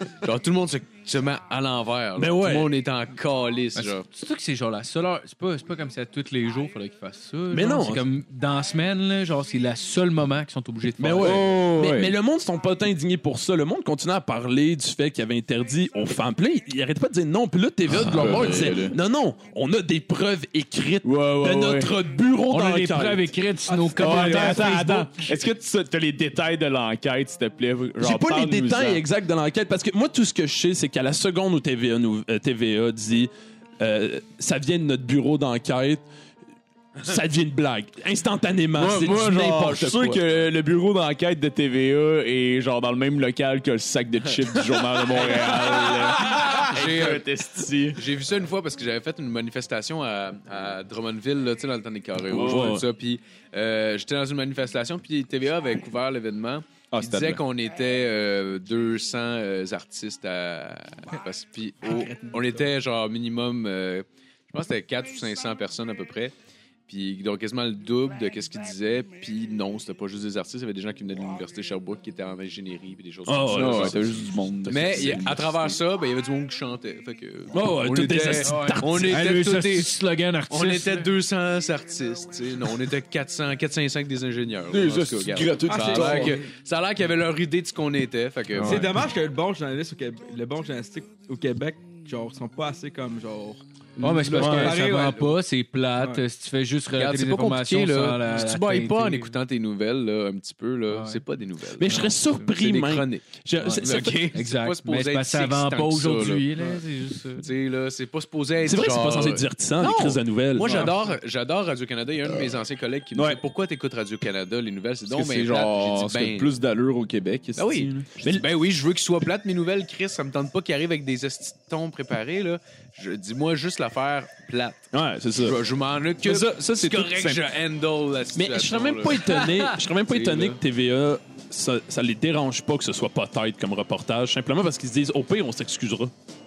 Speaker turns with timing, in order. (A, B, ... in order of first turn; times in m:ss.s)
0:00.2-0:04.1 A
0:02.2-0:02.7 B
0:03.8-0:11.6 C
0:07.5-0:08.0 B
0:11.0-0:23.3 B
0:11.2-0:12.2 D
0:17.9-0:19.0 D
0:21.0-0:22.0 D
0:22.5-0:25.4 C
0:23.7-0:24.7 E
0:24.0-0:29.0 D
0:28.0-0:36.0 B
0:37.0-0:40.2 B
0:38.7-0:48.0 D
0:45.1-0:47.3 A
0:47.9-1:06.3 A
0:52.2-0:52.9 D
0:56.9-0:57.4 D
1:01.9-1:02.4 E
1:06.9-1:20.0 A
1:13.3-1:14.0 B
1:13.5-1:15.8 D
1:17.5-1:19.3 B
1:18.3-1:21.1 C
1:20.5-1:28.9 A
1:24.7-1:26.4 D
1:25.7-1:26.5 E
1:28.6-1:28.9 C
1:28.6-1:35.4 E
1:34.0-1:39.3 C
1:34.4-1:34.8 B
1:36.0-1:36.2 E
1:36.9-1:46.8 A
1:40.9-1:41.2 C
1:41.8-1:44.3 B
1:41.9-1:42.3 C
1:43.6-1:47.5 C
1:47.4-1:56.5 A
1:48.6-1:51.0 B
1:53.1-1:53.4 D
1:55.1-1:58.3 D
1:57.6-2:10.6 A
2:04.9-2:05.6 B
2:06.2-2:07.4 B
2:08.4-2:16.1 B